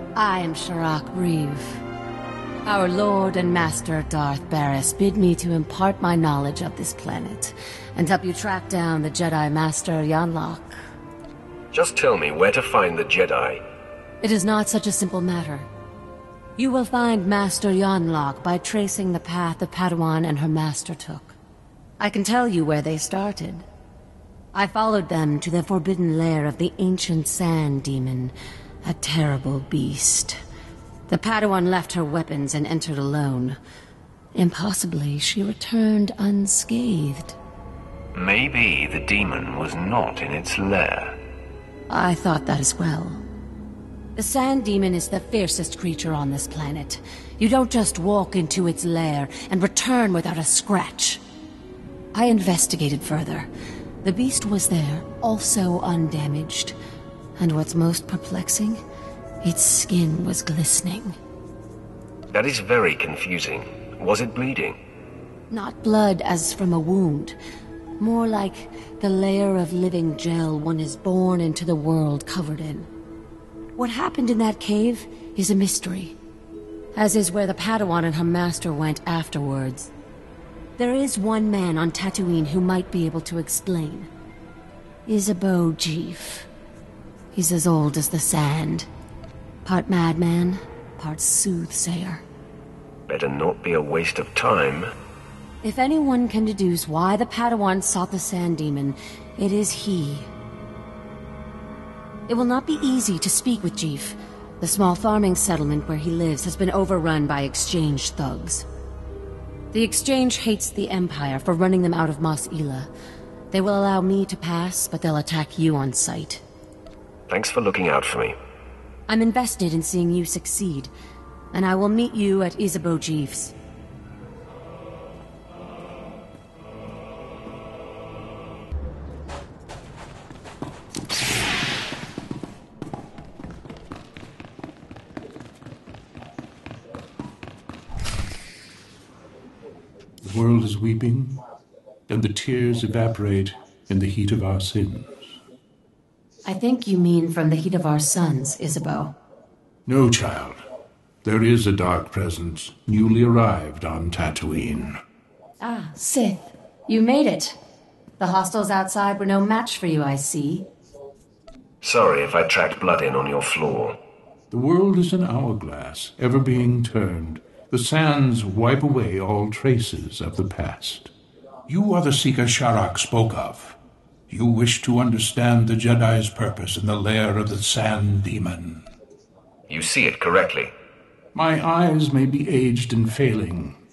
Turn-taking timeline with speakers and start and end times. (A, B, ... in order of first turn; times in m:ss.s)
0:00.2-0:01.8 A
0:02.7-0:10.8 A
0:11.7-0:13.6 B
0:14.2-0:15.7 A
0:16.6-0:21.4 A
0:22.0-0:23.7 A
0:24.5-0:30.4 A
0:31.1-0:33.6 A
0:34.4-0:37.4 A
0:38.1-0:41.2 B
0:41.9-0:43.2 A
0:44.2-0:51.2 A
0:52.1-0:53.5 A
0:54.0-0:56.8 A
0:57.4-0:58.8 A
0:59.4-1:01.2 A
1:02.3-1:04.8 B
1:05.5-1:07.4 A
1:08.0-1:12.9 A
1:13.8-1:16.2 A
1:17.0-1:19.9 A
1:20.8-1:24.1 A
1:25.1-1:26.5 A
1:27.3-1:28.9 A
1:29.6-1:32.2 A
1:33.1-1:34.9 B
1:35.6-1:40.3 A
1:42.3-1:48.6 A
1:49.7-1:52.9 A
1:53.5-1:56.4 A
1:57.3-1:58.4 B
1:59.1-2:00.9 A
2:01.5-2:03.5 A
2:20.2-2:21.4 C
2:22.1-2:25.3 C
2:26.5-2:29.1 A
2:29.9-2:30.6 C
2:31.2-2:35.0 C
2:35.6-2:37.6 A
2:38.2-2:40.6 A
2:41.8-2:44.0 B
2:44.5-2:51.1 C
2:51.7-2:53.8 C
2:54.3-2:58.9 C
2:59.7-3:00.7 B
3:01.3-3:03.8 C